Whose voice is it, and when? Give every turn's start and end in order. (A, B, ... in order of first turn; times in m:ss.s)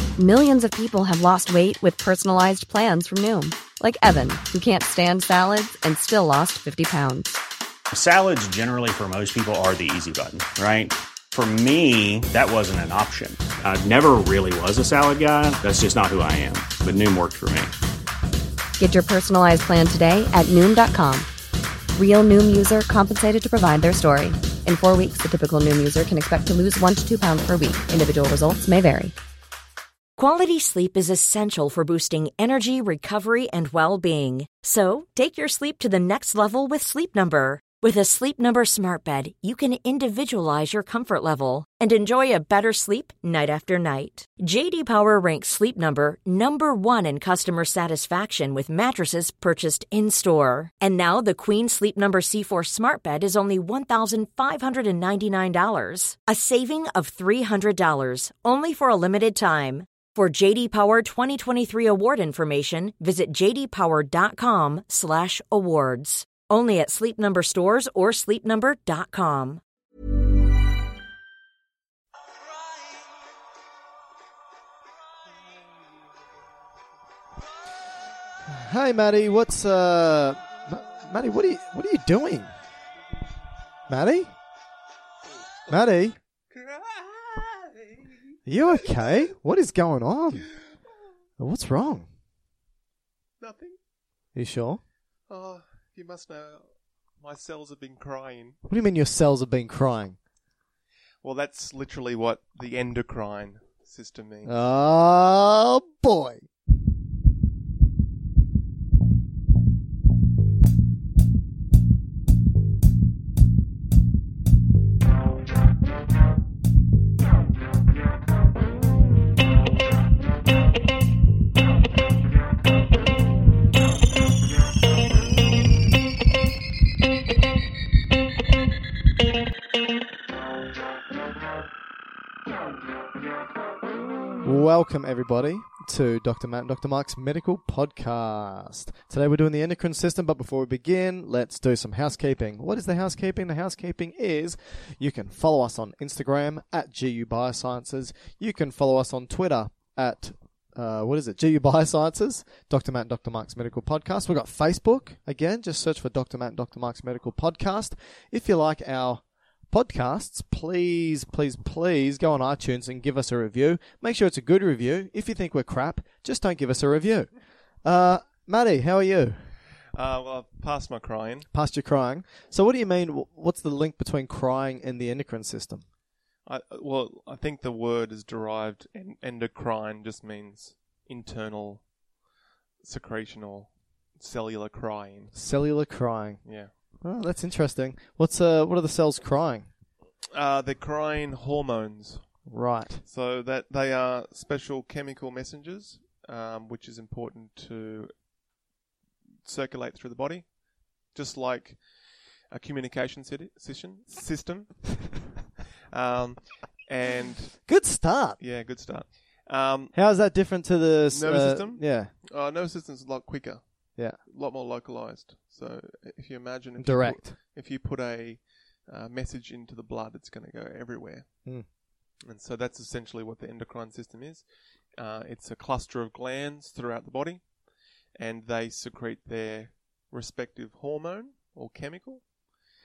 0:00.2-0:07.4 A
0:07.9-0:17.7 B
0:18.8-0:21.3 A
0:21.9-0:29.1 A
0:30.2-1:09.6 C
1:18.5-1:22.5 D
1:23.9-1:24.3 D
1:25.7-1:26.2 D
1:26.5-1:28.3 E
1:28.5-1:30.5 D
1:31.4-1:32.1 D
1:33.4-1:33.8 E
1:34.3-1:34.8 D
1:35.3-1:38.6 E
1:38.7-1:40.2 D
1:41.2-1:44.6 E
1:44.4-1:46.4 D
2:14.4-2:47.3 D
2:47.8-2:49.4 D
2:49.9-2:51.5 E
2:51.5-2:55.8 D
2:56.4-3:01.9 E
3:02.8-3:05.4 E
3:05.3-3:06.4 D
3:06.4-3:06.7 E
3:07.0-3:09.7 D
3:10.3-3:12.3 E
3:12.5-3:13.0 D
3:13.0-3:18.1 E
3:19.4-3:25.2 E
3:25.9-3:27.7 E
3:27.7-3:28.4 D
3:28.4-3:29.9 E
3:29.9-3:32.1 D
3:31.1-3:41.4 E
3:36.8-3:37.4 D
3:42.2-3:44.4 E
3:45.0-3:47.5 E
3:48.1-3:52.3 E